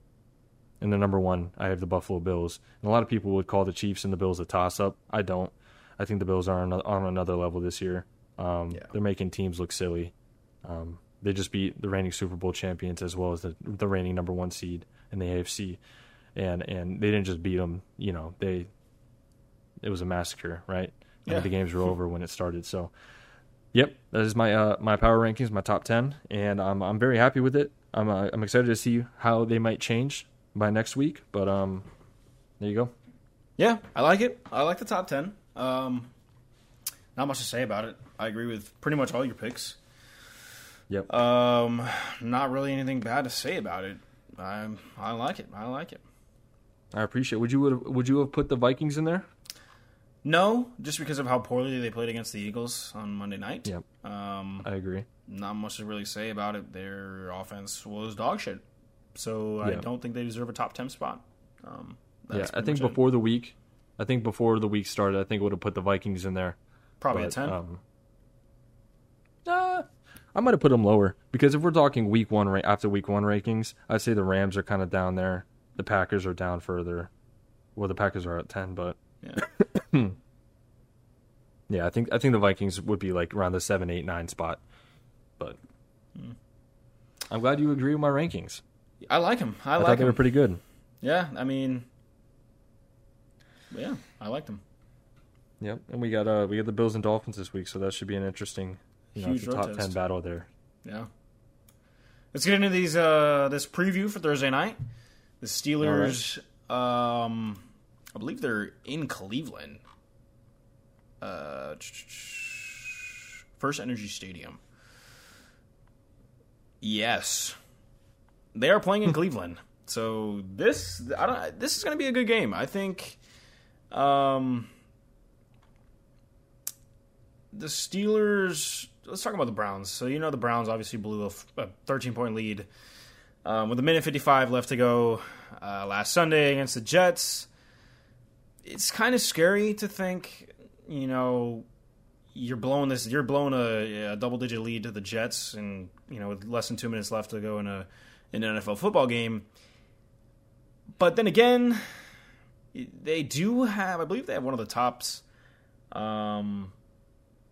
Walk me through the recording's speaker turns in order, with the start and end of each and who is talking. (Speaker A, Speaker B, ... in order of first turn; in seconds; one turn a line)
Speaker A: 0.8-10.1
Speaker A: 10.7-15.8
Speaker A: 16.4-18.7
Speaker A: 19.8-22.9
Speaker A: 23.7-31.9
Speaker A: 32.6-32.9
Speaker B: 33.6-36.1
Speaker B: 37.2-39.8
Speaker B: 41.1-46.0
Speaker A: 46.9-49.2
Speaker B: 50.2-54.7
Speaker A: 54.6-55.1
Speaker B: 55.2-58.6
Speaker B: 59.1-63.0
Speaker A: 62.3-66.6
Speaker B: 67.0-67.6
Speaker A: 67.1-67.8
Speaker A: 69.5-77.1
Speaker A: 77.8-80.2
Speaker A: 81.7-84.6
Speaker A: 87.3-88.6
Speaker B: 89.0-90.2
Speaker A: 89.8-90.6
Speaker B: 91.0-91.9
Speaker B: 93.7-94.6
Speaker A: 95.6-100.5
Speaker B: 99.2-100.0
Speaker B: 102.3-104.8
Speaker B: 105.4-107.6
Speaker A: 105.8-106.2
Speaker B: 108.2-109.8
Speaker B: 111.2-114.6
Speaker B: 116.8-117.6
Speaker B: 118.5-123.2
Speaker B: 123.9-124.7
Speaker B: 127.5-132.7
Speaker B: 133.4-137.5
Speaker B: 138.7-141.7
Speaker B: 142.3-149.5
Speaker B: 151.0-152.1
Speaker B: 152.7-155.2
Speaker B: 155.9-156.7